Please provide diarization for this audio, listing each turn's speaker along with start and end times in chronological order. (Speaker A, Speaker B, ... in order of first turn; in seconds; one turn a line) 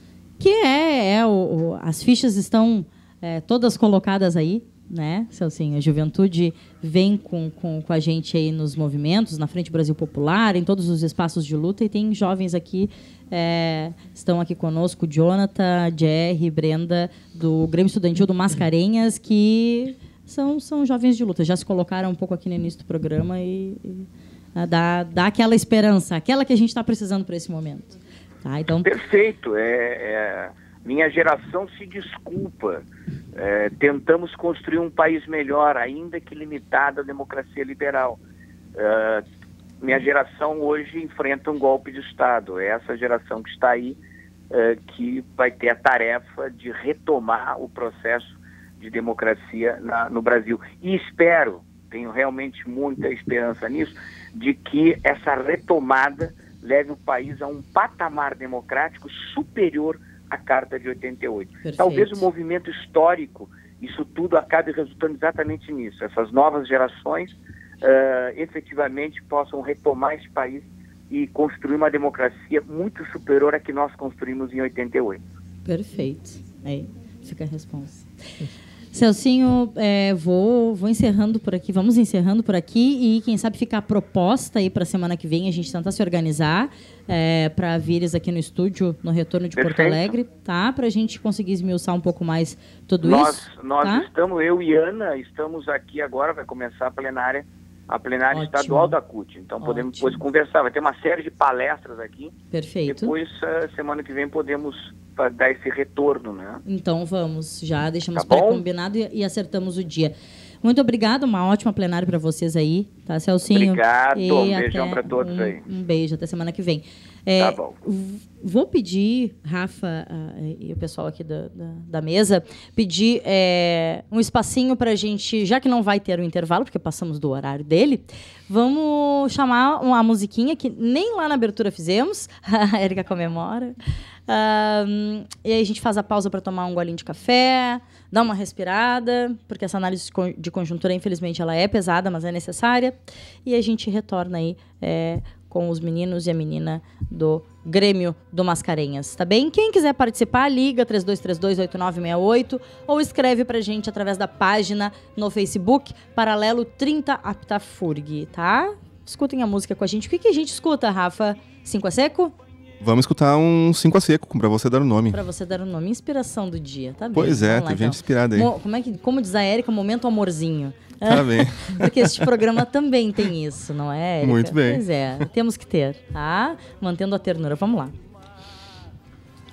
Speaker A: 0.4-28.9
Speaker B: 28.8-38.2
Speaker B: 38.8-39.2
Speaker B: 39.8-44.0
Speaker B: 44.5-75.2
Speaker A: 61.6-62.2
Speaker A: 75.6-78.1
Speaker A: 78.9-94.1
Speaker B: 89.5-90.1
Speaker B: 93.0-102.3
Speaker A: 98.3-99.0
Speaker A: 99.6-100.2
Speaker A: 102.5-103.1
Speaker B: 102.9-106.6
Speaker A: 106.7-133.8
Speaker B: 108.1-108.6
Speaker B: 113.5-115.6
Speaker B: 117.4-117.8
Speaker A: 134.3-162.3
Speaker C: 162.8-165.2
Speaker A: 165.1-177.9
Speaker C: 167.1-168.5
Speaker C: 171.0-172.1
Speaker C: 174.2-174.8